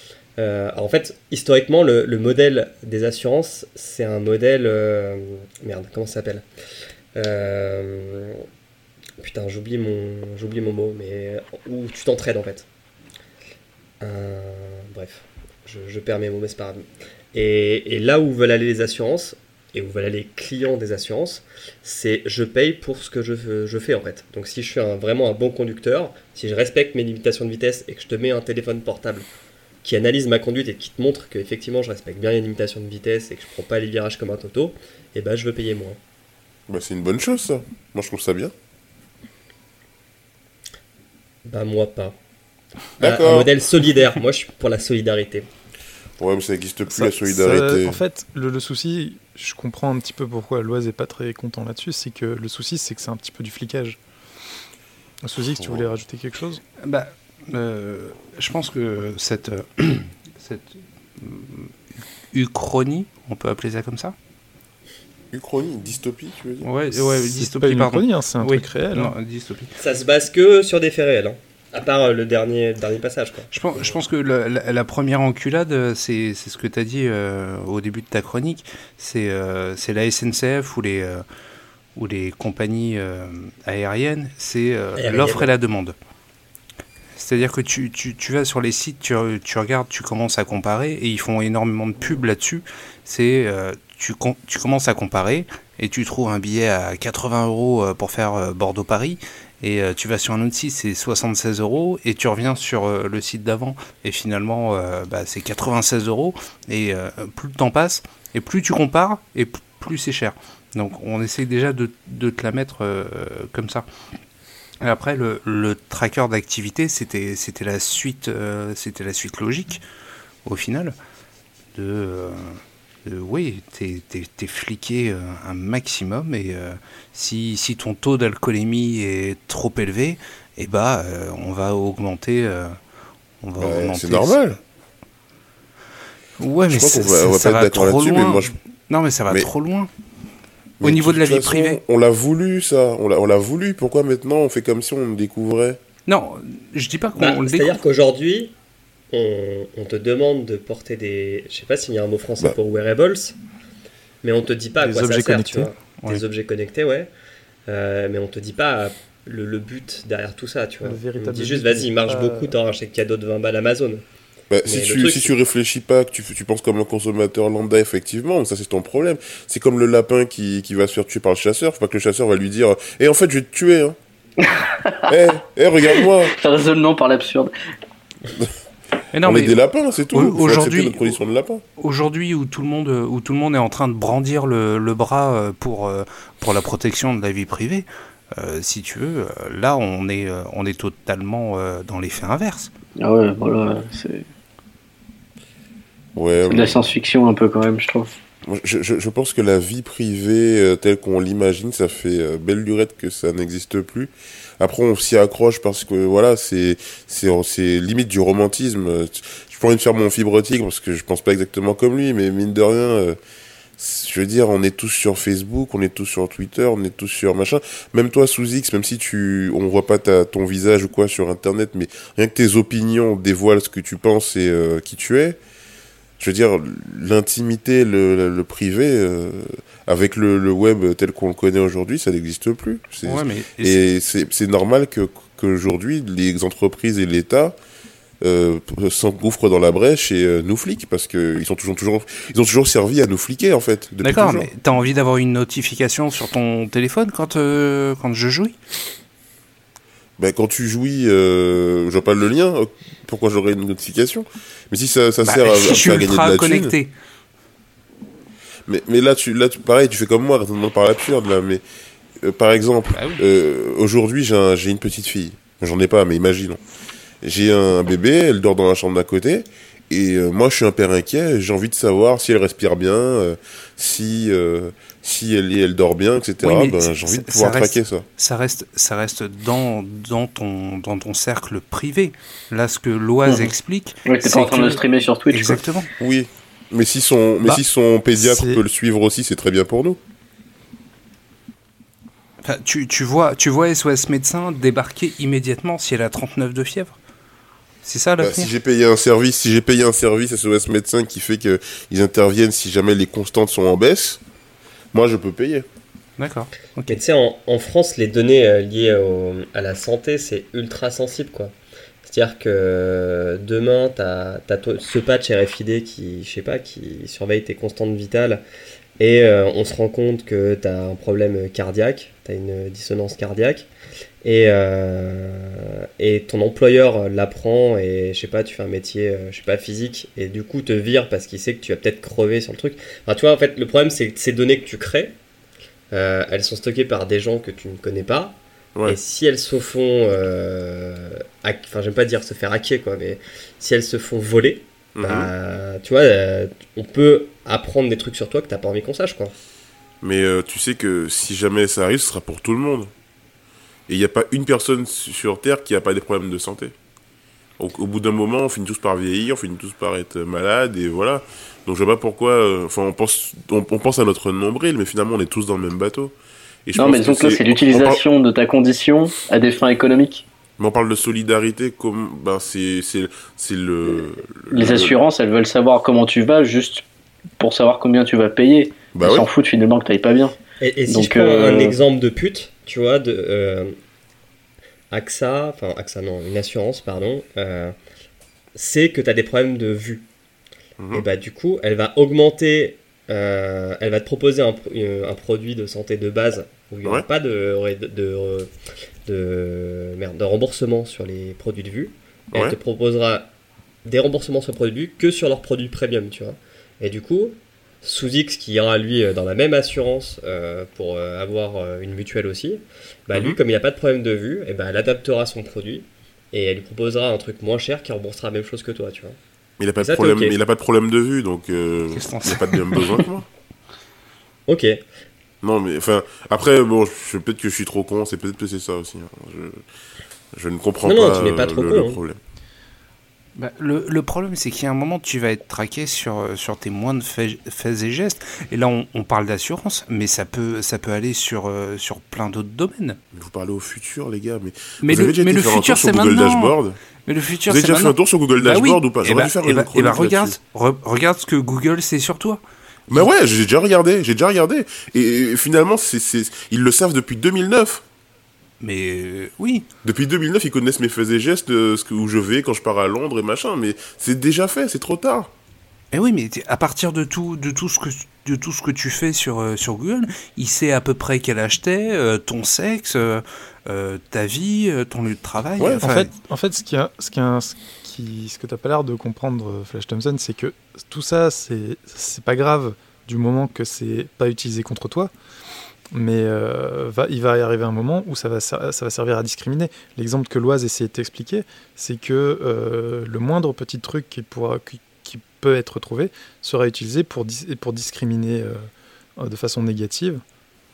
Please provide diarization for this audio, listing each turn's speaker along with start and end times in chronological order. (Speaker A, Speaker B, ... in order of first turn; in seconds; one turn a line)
Speaker A: 0.4-6.4
Speaker A: 7.1-8.4
Speaker A: 9.2-12.7
Speaker A: 14.0-29.3
Speaker A: 29.8-36.0
Speaker B: 36.7-38.5
Speaker A: 41.4-42.1
Speaker B: 43.0-43.5
Speaker A: 43.0-45.5
Speaker B: 46.2-48.0
Speaker C: 46.9-54.0
Speaker C: 55.2-56.6
Speaker B: 55.6-55.9
Speaker D: 56.8-61.7
Speaker D: 62.3-64.1
Speaker B: 65.3-66.7
Speaker D: 66.6-69.7
Speaker C: 66.9-69.1
Speaker A: 69.8-73.9
Speaker D: 73.5-81.2
Speaker D: 82.0-86.0
Speaker A: 85.0-85.5
Speaker D: 87.2-113.8
Speaker D: 114.8-119.8
Speaker D: 120.4-120.9
Speaker D: 121.7-132.8
Speaker D: 133.4-134.4
Speaker B: 133.6-134.6
Speaker D: 136.4-139.9
Speaker B: 136.7-138.5
Speaker D: 140.8-141.8
Speaker B: 140.8-145.8
Speaker D: 146.1-147.8
Speaker A: 147.2-148.5
Speaker A: 149.1-153.3
Speaker A: 154.2-157.1
Speaker C: 154.8-155.7
Speaker A: 157.7-164.0
Speaker C: 160.8-162.5
Speaker B: 164.5-174.0
Speaker A: 164.7-165.3
Speaker E: 174.4-175.1
Speaker B: 175.1-176.3
Speaker E: 176.0-177.5
Speaker D: 179.1-179.6
Speaker B: 179.2-181.6
Speaker D: 180.1-181.2
Speaker D: 181.8-192.7
Speaker E: 193.0-194.2
Speaker B: 196.2-196.8
Speaker E: 196.5-198.1
Speaker B: 198.5-213.2
Speaker B: 213.8-225.4
Speaker B: 226.2-237.6
Speaker D: 233.0-233.8
Speaker B: 238.2-244.5
Speaker D: 244.0-248.5
Speaker B: 250.2-256.7
Speaker D: 255.2-256.9
Speaker B: 258.7-261.6
Speaker B: 262.2-266.6
Speaker D: 262.9-263.2
Speaker B: 267.2-278.0
Speaker D: 276.4-285.9
Speaker E: 283.2-283.5
Speaker E: 284.1-285.6
Speaker B: 286.0-290.0
Speaker C: 288.1-288.6
Speaker D: 292.4-296.9
Speaker D: 297.8-298.5
Speaker B: 298.2-304.2
Speaker B: 304.9-305.7
Speaker D: 306.2-307.0
Speaker A: 306.9-318.4
Speaker A: 319.0-323.7
Speaker A: 324.2-335.1
Speaker A: 335.9-349.3
Speaker B: 344.9-345.3
Speaker B: 350.0-352.9
Speaker B: 353.9-356.7
Speaker B: 357.6-366.1
Speaker B: 366.6-368.0
Speaker E: 366.8-370.2
Speaker B: 370.6-375.0
Speaker E: 374.5-376.8
Speaker E: 377.4-380.3
Speaker B: 378.9-379.3
Speaker A: 380.6-383.7
Speaker E: 380.9-381.8
Speaker A: 384.9-387.7
Speaker A: 388.5-390.1
Speaker B: 390.8-391.0
Speaker A: 390.9-398.5
Speaker A: 399.1-403.3
Speaker A: 403.8-419.2
Speaker B: 413.1-413.4
Speaker B: 419.6-423.3
Speaker A: 419.8-420.3
Speaker D: 421.9-423.1
Speaker A: 424.5-424.8
Speaker B: 425.4-429.6
Speaker B: 430.3-432.2
Speaker A: 430.8-432.0
Speaker D: 433.4-443.0
Speaker B: 443.1-446.8
Speaker D: 444.8-446.5
Speaker D: 447.1-452.4
Speaker B: 447.5-450.4
Speaker B: 452.9-457.8
Speaker D: 458.6-459.6
Speaker B: 459.8-465.3
Speaker D: 465.9-476.1
Speaker C: 475.8-485.1
Speaker C: 485.9-500.2